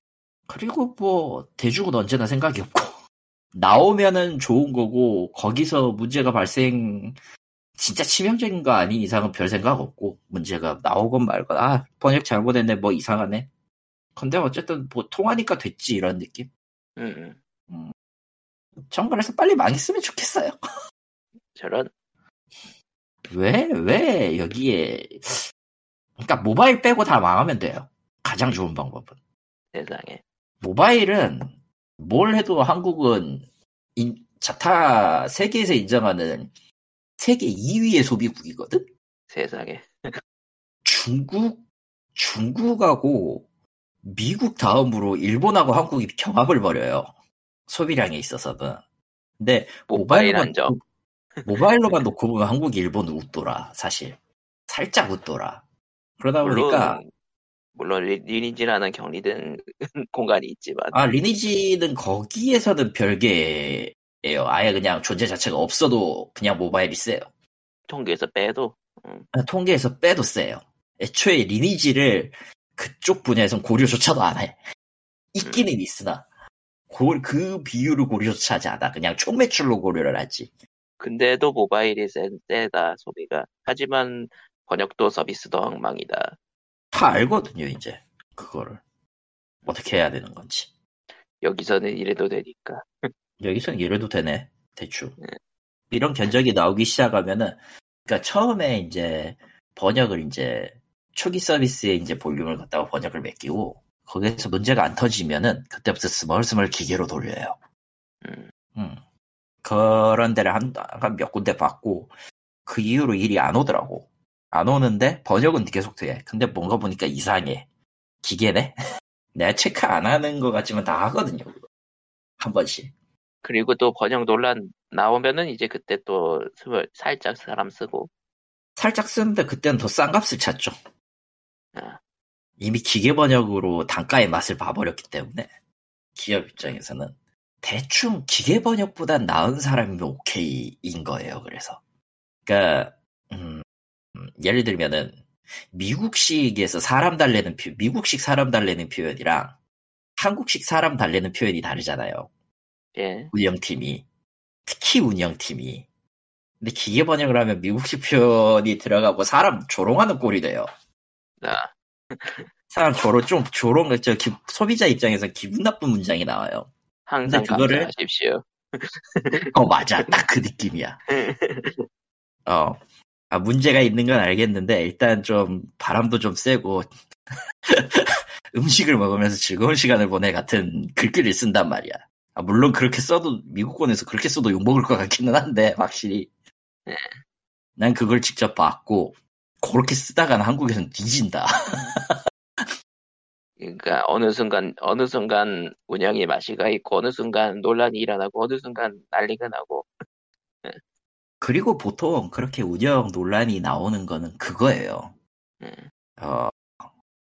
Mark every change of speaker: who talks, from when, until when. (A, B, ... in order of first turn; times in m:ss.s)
0:00.5-0:03.0 A
0:03.5-0:07.2 A
0:07.8-0:13.5 A
0:14.2-0:16.5 A
0:17.0-0:17.4 B
0:17.7-0:17.9 A
0:18.8-0:20.6 A
0:21.5-0:21.9 B
0:23.3-0:25.5 A
0:26.2-0:29.2 A
0:29.7-0:30.2 B
0:30.6-0:36.5 A
0:37.2-0:38.9 A
0:39.3-0:40.2 B
0:40.8-0:41.6 A
0:42.2-0:43.5 A
0:44.0-0:47.1 A
0:47.7-0:48.8 A
0:49.4-0:50.8 A
0:49.9-0:50.8 B
0:51.5-0:54.2 A
0:54.7-0:55.6 A
0:56.2-0:57.0 A
0:56.4-0:57.1 B
0:57.8-1:01.0 B
1:00.9-1:07.3 A
1:07.9-1:09.3 B
1:09.4-1:14.6 A
1:15.3-1:16.3 A
1:15.4-1:15.7 B
1:16.9-1:20.5 A
1:21.0-1:26.4 B
1:26.9-1:28.8 A
1:29.7-1:30.7 A
1:31.4-1:32.9 B
1:33.4-1:35.2 A
1:35.9-1:47.6 A
1:48.2-1:48.5 B
1:49.6-1:52.1 A
1:52.7-1:57.7 A
1:58.2-1:58.8 A
1:59.4-2:01.6 A
2:02.4-2:02.9 A
2:03.4-2:08.1 B
2:08.8-2:10.8 A
2:12.6-2:15.5 A
2:16.2-2:21.8 A
2:22.5-2:23.6 A
2:24.2-2:29.5 A
2:30.2-2:32.3 A
2:33.0-2:33.3 B
2:33.3-2:34.0 A
2:34.7-2:35.8 A
2:36.6-2:40.7 A
2:41.4-2:42.5 B
2:42.7-2:46.7 A
2:47.1-2:50.1 B
2:47.2-2:47.9 A
2:49.5-2:51.0 A
2:51.1-2:51.9 B
2:52.5-2:52.8 A
2:53.3-2:56.9 A
2:57.7-3:06.3 A
3:06.9-3:07.2 B
3:07.8-3:12.7 A
3:13.6-3:19.9 B
3:21.4-3:25.1 A
3:25.6-3:25.9 B
3:26.2-3:26.7 A